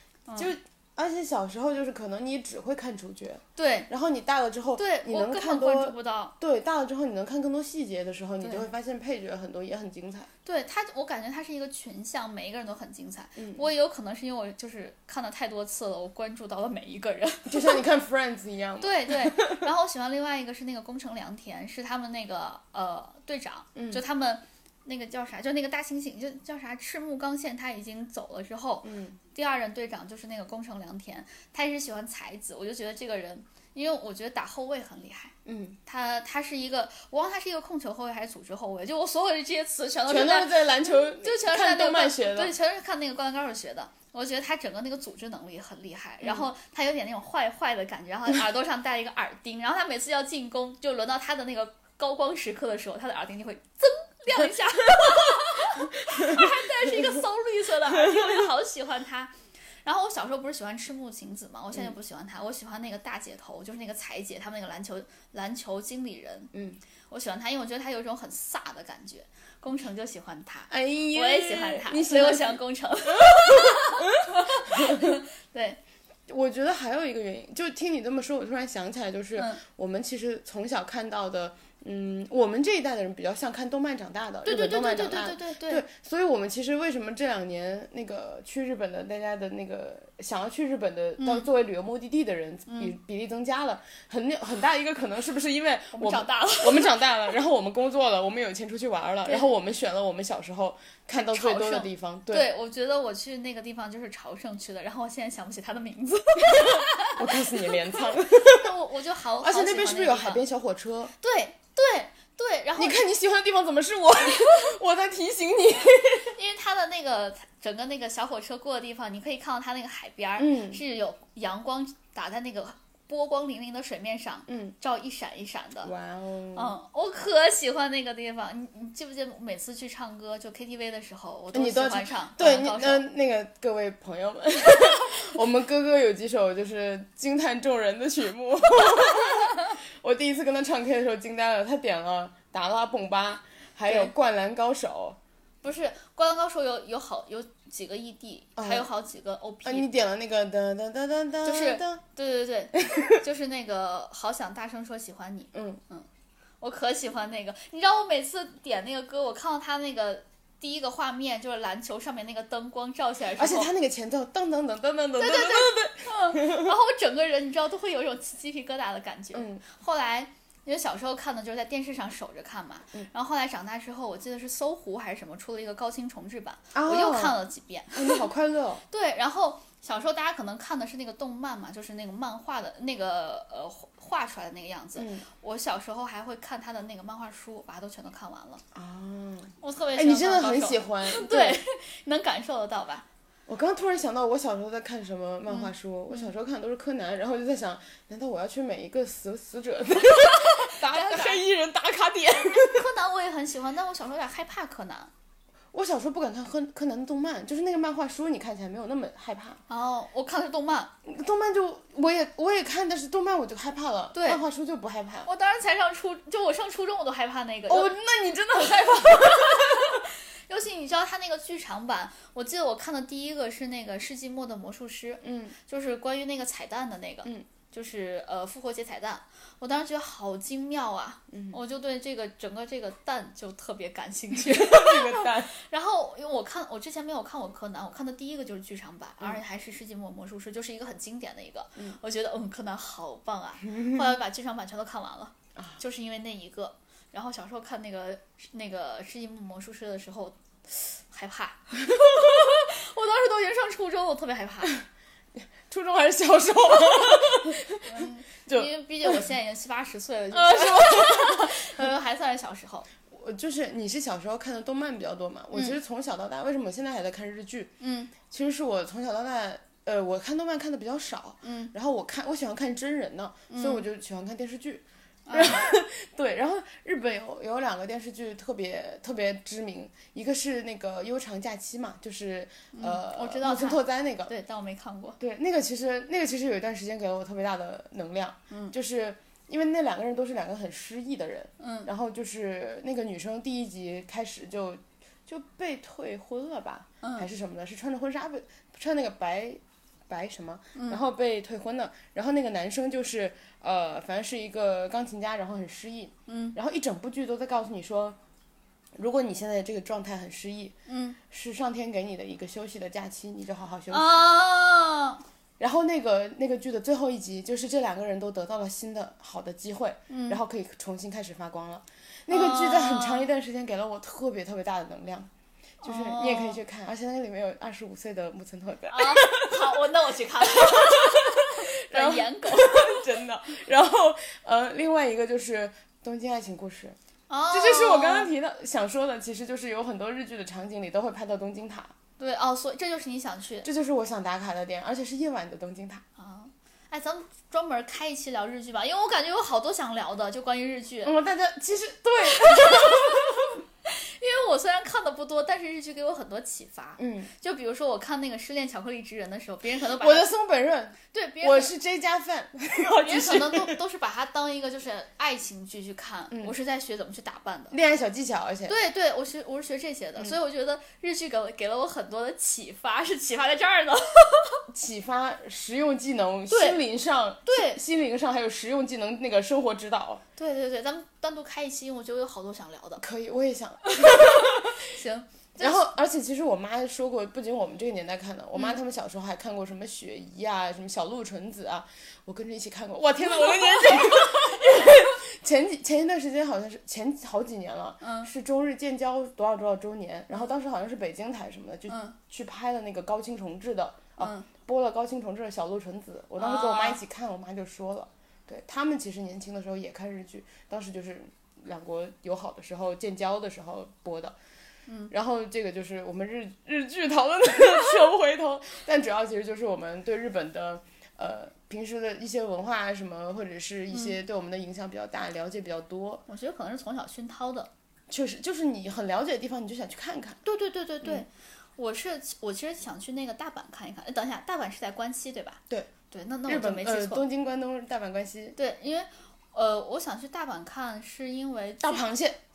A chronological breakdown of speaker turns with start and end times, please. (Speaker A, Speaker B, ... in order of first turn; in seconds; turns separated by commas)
Speaker A: 0.3-0.5, Speaker B: 0.4-10.3, Speaker A: 3.6-3.9, Speaker A: 4.8-6.3, Speaker A: 8.4-8.7, Speaker A: 10.4-17.8, Speaker B: 13.4-13.7, Speaker B: 17.5-19.7, Speaker A: 18.8-66.5, Speaker B: 23.8-24.0, Speaker B: 28.8-29.2, Speaker B: 35.5-35.8, Speaker B: 40.1-42.5, Speaker B: 46.2-46.5, Speaker B: 56.2-57.2, Speaker B: 57.9-58.5, Speaker B: 66.5-66.8, Speaker A: 67.1-75.8, Speaker B: 70.7-72.6, Speaker B: 73.2-75.1, Speaker B: 76.3-102.5, Speaker A: 79.4-79.6, Speaker A: 84.5-85.8, Speaker A: 91.2-91.5, Speaker A: 92.7-93.0, Speaker A: 95.9-96.9, Speaker A: 101.1-110.4, Speaker B: 106.6-108.7, Speaker B: 109.4-111.1, Speaker A: 111.2-113.0, Speaker B: 112.8-116.3, Speaker A: 116.2-125.9, Speaker B: 120.4-120.8, Speaker B: 124.5-124.8, Speaker B: 125.8-126.8, Speaker A: 126.5-133.1, Speaker B: 131.5-145.2, Speaker A: 143.9-144.1, Speaker A: 145.6-149.9, Speaker B: 148.6-148.9, Speaker B: 149.7-152.0, Speaker A: 151.4-156.1, Speaker B: 152.7-153.2, Speaker B: 155.5-155.8, Speaker A: 156.6-163.7, Speaker B: 163.4-166.7, Speaker A: 165.2-178.2, Speaker B: 169.3-169.6, Speaker B: 176.7-177.4, Speaker B: 177.9-178.8, Speaker A: 178.9-188.6, Speaker B: 185.0-185.3, Speaker B: 188.7-191.6, Speaker A: 189.6-193.1, Speaker B: 193.5-202.9, Speaker A: 195.5-196.3, Speaker A: 200.2-201.4, Speaker A: 202.5-205.1, Speaker B: 205.7-209.6, Speaker A: 209.7-210.9, Speaker B: 211.1-215.3, Speaker A: 214.2-214.4, Speaker A: 215.2-217.9, Speaker B: 217.7-220.1, Speaker A: 218.8-254.8, Speaker B: 225.2-225.6, Speaker B: 231.3-231.6, Speaker B: 234.3-235.5, Speaker B: 255.3-259.2, Speaker A: 257.8-262.9, Speaker B: 260.3-261.9, Speaker B: 263.1-284.3, Speaker A: 265.5-265.8, Speaker A: 267.8-268.1, Speaker A: 271.4-271.7, Speaker A: 273.5-273.9, Speaker A: 275.3-275.6, Speaker A: 282.7-285.2, Speaker B: 285.2-308.2, Speaker A: 291.6-291.9, Speaker A: 297.0-297.3, Speaker A: 300.8-301.0, Speaker A: 306.3-306.6, Speaker B: 309.0-310.7, Speaker A: 310.9-311.2, Speaker B: 311.3-314.1, Speaker A: 313.9-315.2, Speaker B: 315.6-325.3, Speaker A: 320.1-320.4, Speaker A: 322.3-323.3, Speaker B: 325.8-329.8, Speaker A: 325.8-326.6, Speaker A: 328.9-333.0, Speaker B: 330.4-331.3, Speaker B: 331.9-337.0, Speaker A: 337.3-338.3, Speaker B: 337.5-341.9, Speaker A: 342.2-343.7, Speaker B: 343.6-346.0, Speaker A: 346.2-351.1, Speaker B: 351.0-353.6, Speaker A: 352.3-360.3, Speaker B: 357.0-357.3, Speaker B: 360.0-363.8, Speaker A: 361.1-361.7, Speaker A: 363.0-367.8, Speaker B: 367.7-368.8, Speaker A: 368.7-374.6, Speaker B: 374.7-380.2, Speaker A: 376.5-376.8, Speaker A: 377.5-377.8, Speaker A: 380.4-383.0, Speaker B: 383.0-384.8, Speaker A: 384.0-385.8, Speaker B: 385.6-414.4, Speaker A: 393.3-394.9, Speaker A: 398.0-398.3, Speaker A: 401.9-402.1, Speaker A: 404.2-404.5, Speaker A: 406.4-407.0, Speaker A: 414.9-415.1, Speaker B: 415.1-426.2, Speaker A: 423.9-424.2, Speaker A: 426.3-427.7, Speaker B: 428.1-430.4, Speaker A: 430.4-437.2, Speaker B: 436.5-438.6, Speaker A: 438.6-442.1, Speaker B: 441.8-442.4